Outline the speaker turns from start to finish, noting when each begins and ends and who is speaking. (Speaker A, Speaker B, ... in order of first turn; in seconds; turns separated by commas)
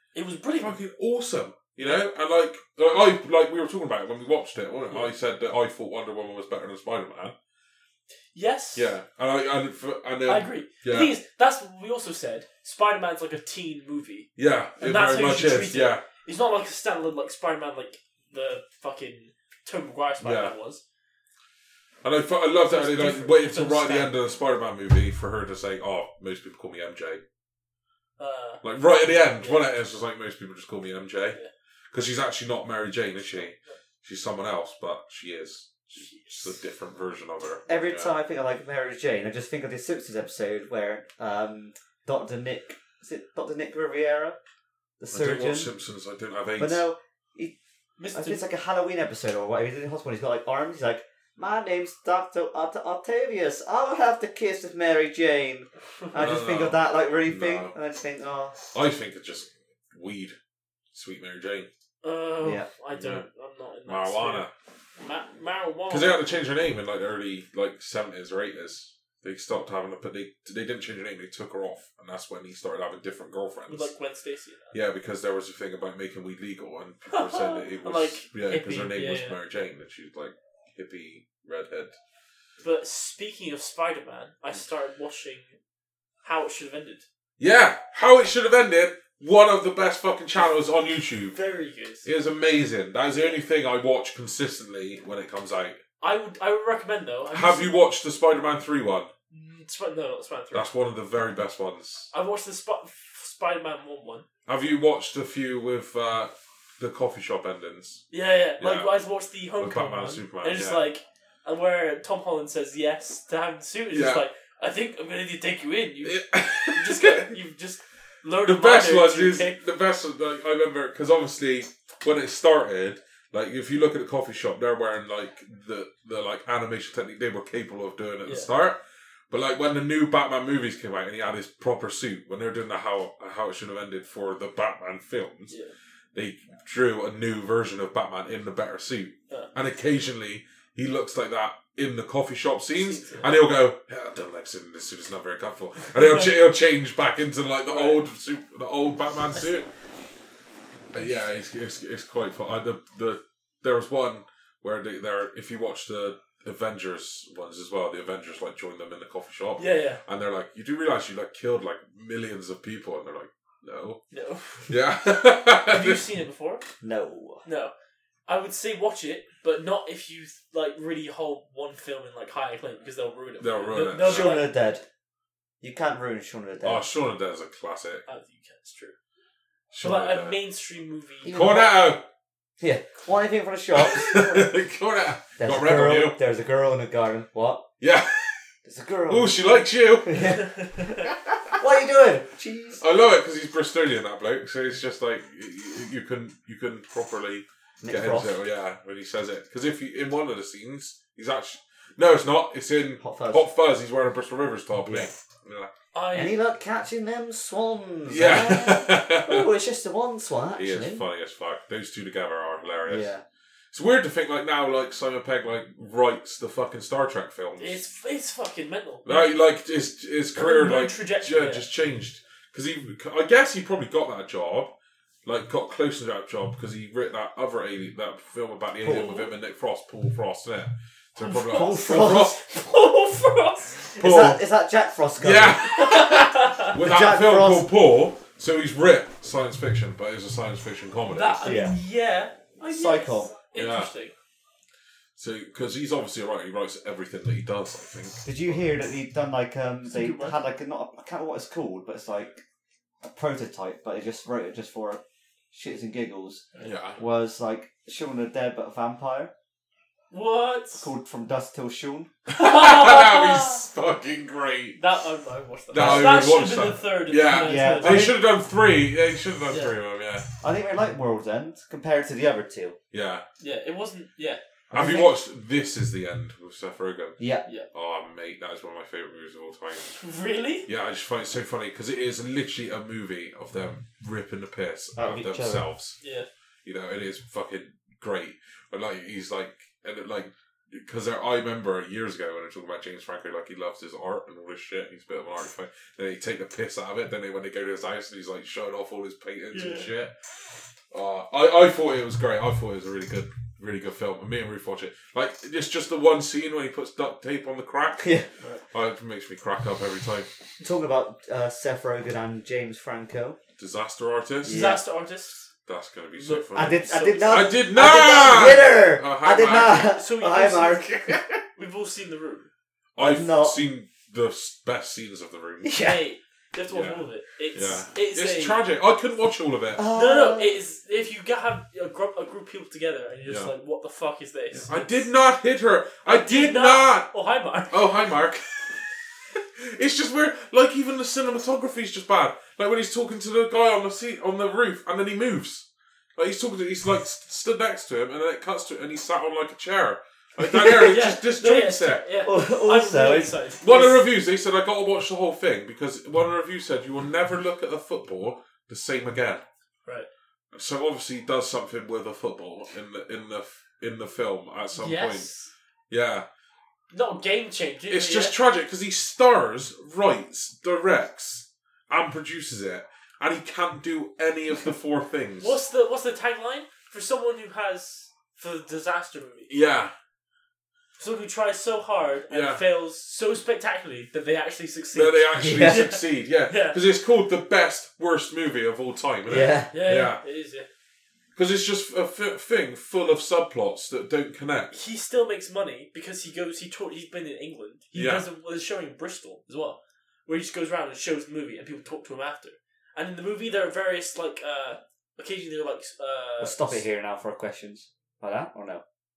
Speaker A: 0.1-0.7, Speaker B: 0.6-7.3, Speaker A: 8.3-8.9, Speaker B: 8.7-11.1, Speaker A: 10.2-20.8, Speaker B: 14.3-16.0, Speaker B: 20.2-20.5, Speaker B: 22.0-27.2, Speaker A: 22.6-24.1, Speaker A: 28.2-28.6, Speaker B: 28.6-31.4, Speaker A: 29.2-29.7, Speaker B: 31.9-38.1, Speaker A: 33.3-33.8, Speaker A: 35.9-36.5, Speaker C: 37.7-44.4, Speaker C: 45.0-45.7, Speaker B: 45.1-46.8, Speaker C: 46.6-47.5, Speaker A: 48.0-48.4, Speaker C: 48.1-58.6, Speaker B: 56.1-57.7, Speaker B: 58.7-60.4, Speaker B: 60.9-61.7, Speaker A: 62.0-64.5, Speaker C: 62.4-62.7, Speaker B: 62.9-63.2, Speaker B: 63.9-64.5, Speaker A: 65.0-66.2, Speaker B: 65.9-73.9, Speaker A: 73.7-74.7, Speaker B: 74.7-81.9, Speaker A: 77.1-79.4, Speaker A: 82.6-85.6, Speaker A: 86.2-87.0, Speaker B: 87.4-91.3, Speaker A: 91.3-92.1, Speaker B: 92.0-95.8, Speaker A: 96.0-97.8, Speaker B: 97.3-99.1, Speaker A: 99.3-100.7, Speaker B: 100.5-102.1, Speaker A: 102.1-104.3, Speaker B: 104.5-108.1, Speaker A: 108.1-119.6, Speaker B: 108.6-109.0, Speaker B: 109.6-110.8, Speaker B: 113.9-114.2, Speaker B: 116.0-117.4, Speaker B: 118.4-128.8, Speaker B: 129.3-135.5, Speaker B: 136.1-149.7, Speaker A: 142.8-143.3, Speaker A: 147.7-148.0, Speaker A: 149.3-149.7, Speaker B: 150.9-164.0, Speaker A: 159.6-160.0, Speaker A: 164.1-164.7, Speaker B: 164.7-166.1, Speaker A: 165.7-166.6, Speaker C: 166.8-167.4, Speaker A: 167.4-167.7, Speaker A: 168.3-174.5, Speaker B: 173.4-174.4, Speaker C: 174.0-174.8, Speaker C: 175.6-176.9, Speaker B: 176.6-178.0, Speaker A: 178.1-178.9, Speaker B: 179.7-180.4, Speaker A: 179.8-181.4, Speaker C: 181.2-181.8, Speaker B: 181.3-182.0, Speaker C: 182.6-184.5, Speaker B: 183.8-186.2, Speaker C: 185.4-187.7, Speaker B: 187.8-188.5, Speaker C: 188.6-192.8, Speaker B: 189.1-190.4, Speaker A: 190.4-190.8, Speaker B: 192.8-205.7, Speaker C: 197.8-198.4, Speaker C: 203.0-203.4, Speaker C: 204.8-205.1, Speaker A: 205.9-206.4, Speaker C: 206.1-211.0, Speaker B: 208.1-209.5, Speaker B: 210.6-213.1, Speaker C: 212.8-213.2, Speaker B: 213.7-217.9, Speaker A: 217.6-219.3, Speaker B: 219.0-224.7, Speaker A: 220.3-221.7, Speaker B: 225.2-232.4, Speaker C: 228.8-229.2, Speaker A: 231.2-234.0, Speaker C: 231.5-232.3, Speaker B: 234.0-234.4, Speaker C: 234.0-235.8, Speaker B: 235.2-241.6, Speaker A: 235.8-236.7, Speaker C: 236.7-237.7, Speaker A: 241.1-244.1, Speaker C: 241.4-241.7, Speaker C: 242.6-243.3, Speaker B: 243.5-243.9, Speaker B: 245.2-248.7, Speaker C: 248.2-252.4, Speaker A: 249.8-250.4, Speaker C: 253.0-259.3, Speaker B: 256.6-257.0, Speaker A: 260.1-260.9, Speaker C: 260.8-262.1, Speaker B: 262.3-264.8, Speaker A: 262.3-263.6, Speaker A: 264.8-268.1, Speaker B: 265.7-270.3, Speaker C: 265.7-266.1, Speaker C: 267.3-268.2, Speaker A: 269.5-269.8, Speaker C: 270.4-272.8, Speaker B: 272.9-273.2, Speaker A: 273.4-274.4, Speaker C: 274.7-275.1, Speaker B: 274.7-280.0, Speaker C: 277.2-277.4, Speaker A: 279.9-280.7, Speaker B: 280.6-286.0, Speaker C: 284.9-285.6, Speaker A: 286.0-286.3, Speaker B: 286.6-300.1, Speaker A: 299.5-299.9, Speaker B: 300.9-308.1, Speaker C: 308.0-308.3, Speaker B: 308.7-310.3, Speaker C: 310.6-313.4, Speaker B: 313.6-314.7, Speaker C: 314.4-314.8, Speaker A: 314.5-315.5, Speaker B: 315.6-319.9, Speaker A: 316.2-317.6, Speaker C: 316.5-321.4, Speaker A: 319.7-322.5, Speaker B: 322.9-325.8, Speaker C: 323.0-323.6, Speaker C: 325.6-326.0, Speaker A: 325.8-328.6, Speaker B: 326.7-329.8, Speaker C: 329.7-330.6, Speaker A: 329.9-335.1, Speaker B: 334.6-337.1, Speaker A: 336.0-338.0, Speaker B: 337.7-338.8, Speaker B: 339.3-352.0, Speaker C: 350.4-350.9, Speaker A: 350.6-354.0, Speaker C: 352.2-353.4, Speaker B: 353.6-359.4, Speaker B: 360.5-365.3, Speaker A: 364.7-365.5, Speaker B: 365.9-366.2, Speaker A: 366.9-368.3, Speaker B: 367.9-375.6, Speaker A: 375.4-379.5, Speaker B: 379.5-379.9, Speaker A: 381.0-386.8, Speaker B: 382.3-382.6, Speaker B: 384.9-390.2, Speaker C: 385.4-385.9, Speaker C: 389.3-389.7, Speaker A: 389.7-390.7, Speaker B: 391.4-394.7, Speaker A: 394.7-406.8, Speaker B: 397.9-398.2, Speaker C: 406.4-408.8